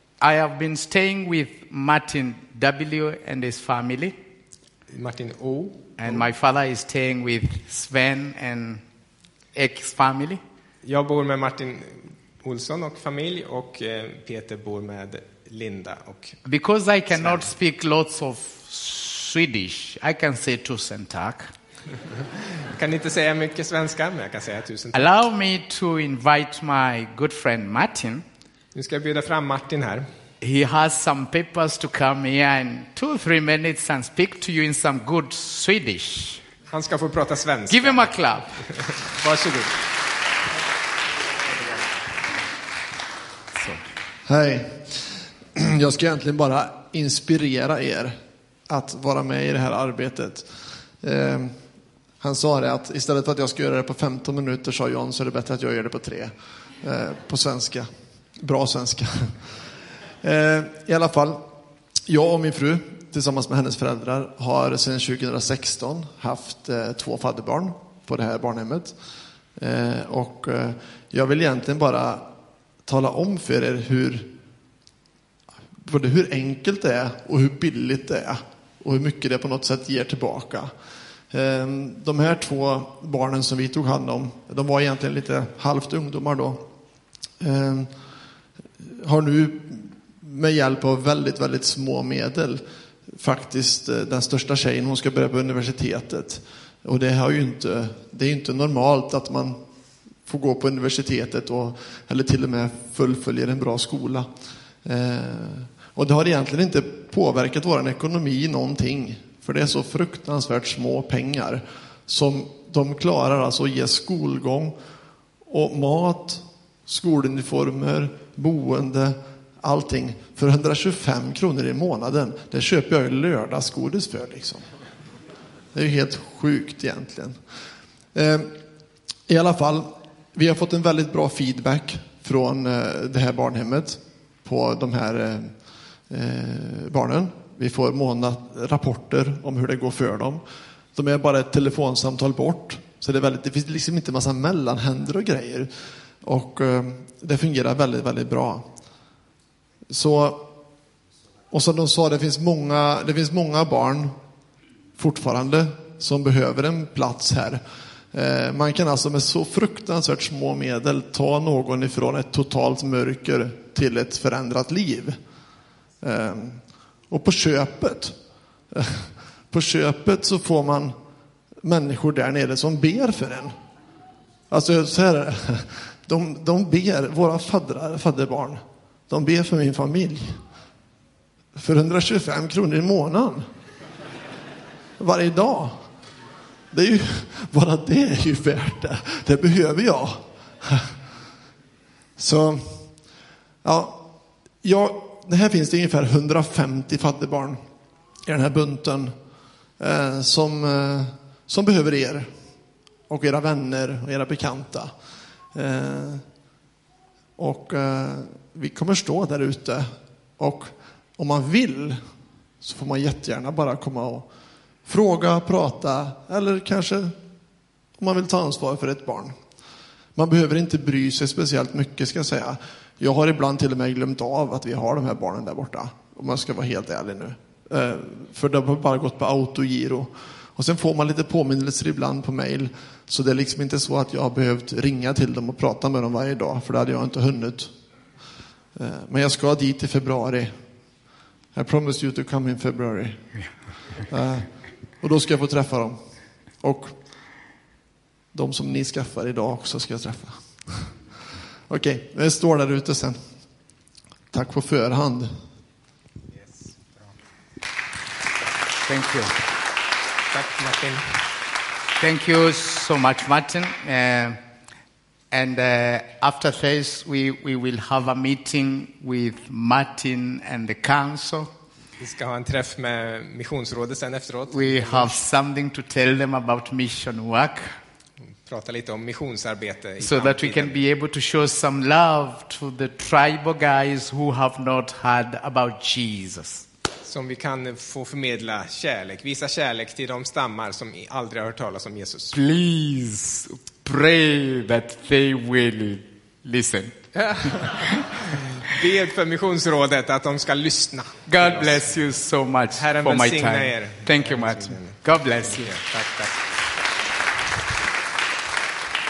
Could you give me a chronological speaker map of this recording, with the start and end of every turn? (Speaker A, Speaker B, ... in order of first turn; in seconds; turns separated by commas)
Speaker A: 0.2-4.2, Speaker B: 4.9-6.2, Speaker A: 6.0-8.8, Speaker A: 9.5-10.4, Speaker B: 10.8-16.4, Speaker A: 16.4-21.5, Speaker B: 17.1-17.5, Speaker B: 22.6-25.1, Speaker A: 24.9-28.2, Speaker B: 28.7-30.1, Speaker A: 30.4-36.4, Speaker B: 36.7-38.1, Speaker A: 37.7-38.6, Speaker B: 38.8-39.7, Speaker A: 43.5-43.8, Speaker C: 44.3-45.0, Speaker C: 45.5-48.1, Speaker C: 48.7-50.5, Speaker C: 51.0-51.5, Speaker C: 52.2-59.3, Speaker C: 60.2-61.4, Speaker C: 62.1-68.9, Speaker C: 69.6-72.2, Speaker C: 72.8-74.3, Speaker C: 75.8-80.7, Speaker C: 81.3-86.6, Speaker C: 87.4-87.9, Speaker C: 88.8-92.6, Speaker C: 93.2-99.6, Speaker C: 100.3-104.3, Speaker C: 104.8-114.7, Speaker C: 115.5-124.6, Speaker C: 125.7-127.4, Speaker C: 128.1-128.5, Speaker C: 129.3-135.5, Speaker C: 136.1-140.4, Speaker C: 140.9-145.7, Speaker C: 146.2-148.7, Speaker C: 149.9-150.5, Speaker C: 151.5-154.1, Speaker C: 155.0-157.6, Speaker C: 158.1-165.2, Speaker C: 166.0-168.1, Speaker C: 168.7-170.9, Speaker C: 171.6-173.5, Speaker C: 174.5-180.4, Speaker C: 181.6-183.4, Speaker C: 185.0-185.8, Speaker C: 186.7-190.9, Speaker C: 192.2-192.8, Speaker C: 193.6-194.1, Speaker C: 194.6-197.6, Speaker C: 198.3-199.1, Speaker C: 199.8-202.3, Speaker C: 203.1-204.9, Speaker C: 205.5-206.2, Speaker C: 207.4-209.9, Speaker C: 210.4-212.0, Speaker C: 212.6-214.3, Speaker C: 214.8-217.1, Speaker C: 218.0-219.3, Speaker C: 220.1-237.7, Speaker C: 238.8-240.5, Speaker C: 241.5-243.2, Speaker C: 244.1-244.5, Speaker C: 245.0-246.0, Speaker C: 246.6-246.9, Speaker C: 248.3-250.8, Speaker C: 251.7-253.2, Speaker C: 254.3-255.3, Speaker A: 258.9-259.3, Speaker B: 260.3-261.0, Speaker A: 262.0-264.4, Speaker A: 265.3-271.5, Speaker B: 272.0-275.2, Speaker A: 274.5-277.7, Speaker B: 278.4-280.8, Speaker A: 280.0-286.6, Speaker B: 287.0-292.4, Speaker A: 292.3-298.0, Speaker B: 297.1-298.0, Speaker B: 298.6-301.9, Speaker A: 301.3-305.7, Speaker B: 302.8-306.4